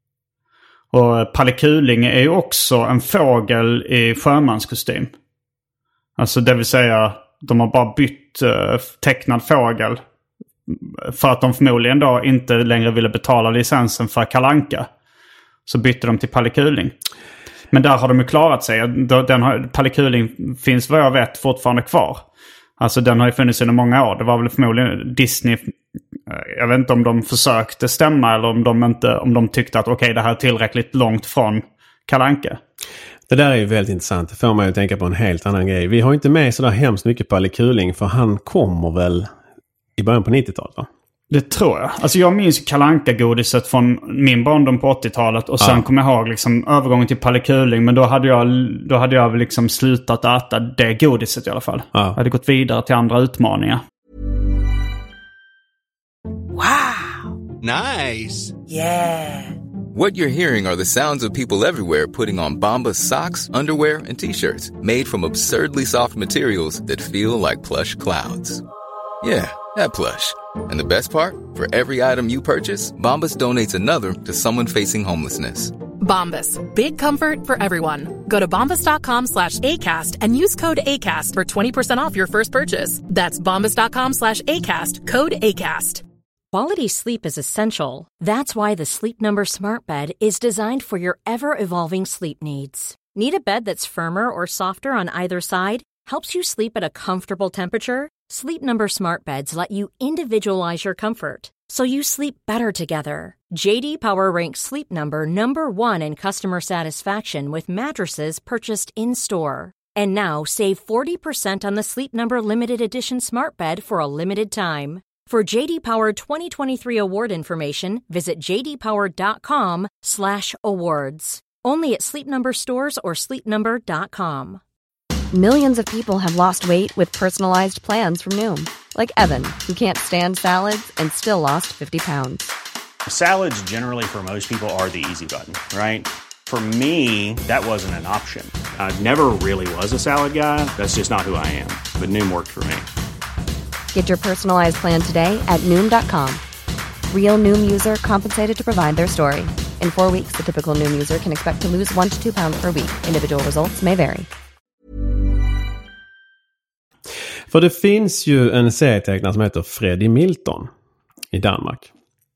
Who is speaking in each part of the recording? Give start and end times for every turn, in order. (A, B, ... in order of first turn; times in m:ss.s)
0:00.9-0:05.1 A
0:06.2-0:10.0 A
0:10.7-0:14.9 A
0:15.7-0:16.9 A
0:17.7-0:22.2 A
0:22.8-0:25.7 A
0:26.3-0:32.6 A
0:33.3-0:39.3 B
0:40.0-0:40.9 B
0:41.3-0:53.8 A
0:57.7-0:58.5 C
0:59.9-1:08.6 D
1:09.2-1:15.8 D
1:16.0-1:26.0 E
1:26.5-2:04.6 F
2:05.3-2:12.5 G
2:13.1-2:22.9 C
2:23.9-2:26.4 G
2:27.1-2:34.3 G
2:37.5-2:40.7 B
2:41.3-2:41.9 B